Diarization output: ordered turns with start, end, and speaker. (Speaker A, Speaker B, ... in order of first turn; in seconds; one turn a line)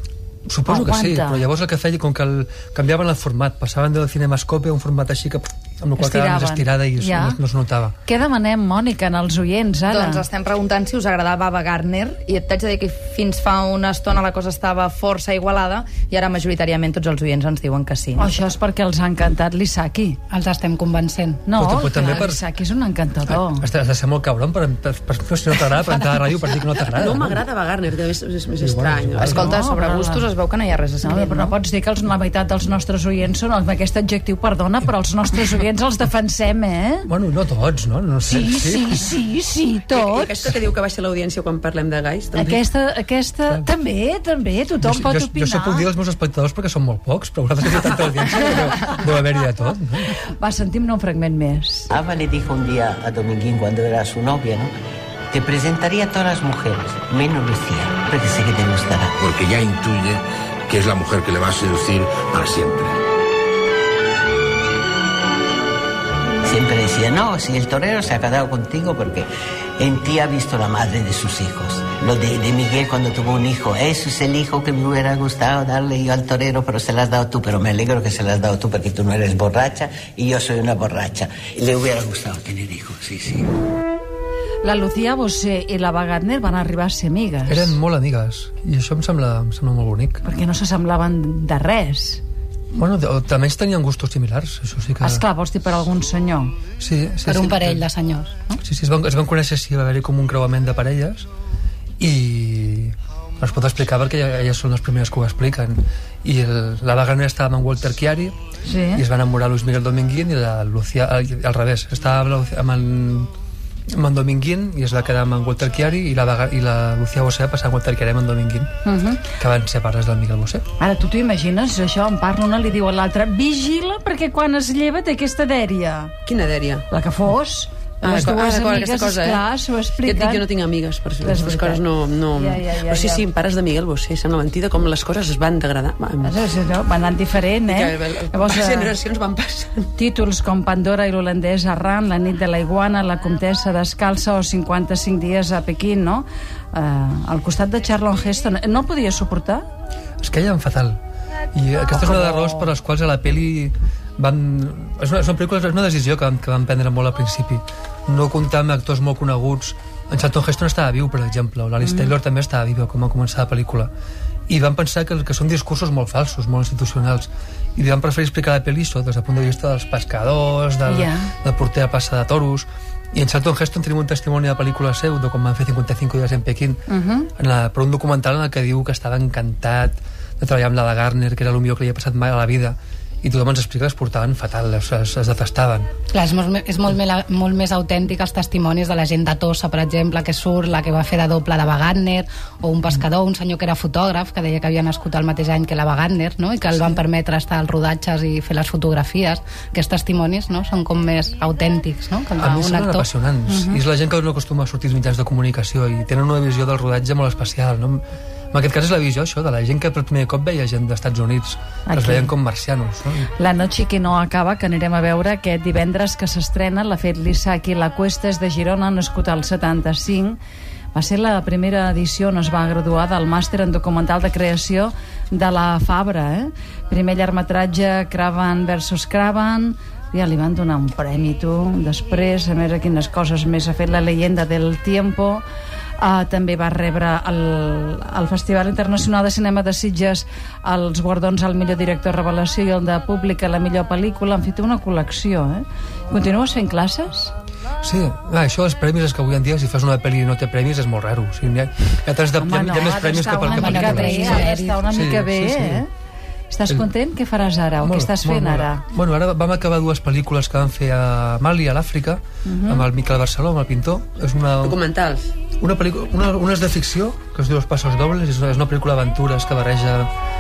Speaker A: 0.5-8.0
Speaker B: 0.7-1.4
Speaker B: 6.0-7.4
Speaker B: 8.1-10.2
Speaker C: 9.9-18.3
Speaker B: 18.2-20.2
Speaker D: 20.3-21.4
Speaker B: 21.5-23.7
Speaker A: 21.6-22.4
Speaker A: 23.3-27.4
Speaker D: 25.8-26.2
Speaker E: 26.9-29.5
Speaker A: 28.6-29.5
Speaker C: 29.2-31.5
Speaker B: 29.2-30.3
Speaker B: 31.0-37.1
Speaker A: 37.1-39.0
Speaker B: 38.3-40.4
Speaker E: 39.9-42.6
Speaker B: 42.4-45.9
Speaker A: 44.8-50.1
Speaker B: 50.3-51.9
Speaker F: 51.9-54.7
Speaker F: 55.3-59.1
Speaker G: 59.2-63.0
Speaker F: 66.4-69.3
Speaker F: 69.8-83.5
Speaker B: 84.6-87.8
Speaker A: 87.5-90.2
Speaker B: 90.2-92.2
Speaker A: 92.7-95.2
Speaker B: 95.0-96.5
Speaker A: 96.8-97.8
Speaker D: 97.3-98.5
Speaker A: 98.6-101.3
Speaker A: 102.0-108.3
Speaker B: 108.7-109.0
Speaker A: 108.9-113.3
Speaker A: 113.9-118.7
Speaker B: 118.8-119.2
Speaker A: 119.4-120.7
Speaker B: 120.8-126.1
Speaker E: 126.3-126.9
Speaker B: 126.9-130.5
Speaker E: 128.0-129.4
Speaker E: 130.0-136.3
Speaker B: 131.2-131.8
Speaker B: 132.3-133.2
Speaker B: 136.2-138.9
Speaker E: 137.7-139.9
Speaker B: 140.0-149.7
Speaker A: 150.2-151.0
Speaker A: 151.5-163.9
Speaker B: 152.3-152.6
Speaker B: 161.8-162.1
Speaker A: 164.5-185.9
Speaker B: 170.9-171.3
Speaker B: 176.9-177.3
Speaker D: 186.1-203.1
Speaker A: 202.4-213.3
Speaker B: 203.5-203.8
Speaker B: 211.9-212.3
Speaker B: 213.4-220.4
Speaker B: 220.9-235.4
Speaker B: 236.0-247.3
Speaker A: 247.8-255.8
Speaker B: 252.4-255.9
Speaker D: 253.4-254.8
Speaker B: 256.5-258.8
Speaker A: 257.8-264.8
Speaker B: 262.4-262.9
Speaker E: 264.6-265.3
Speaker A: 265.6-270.1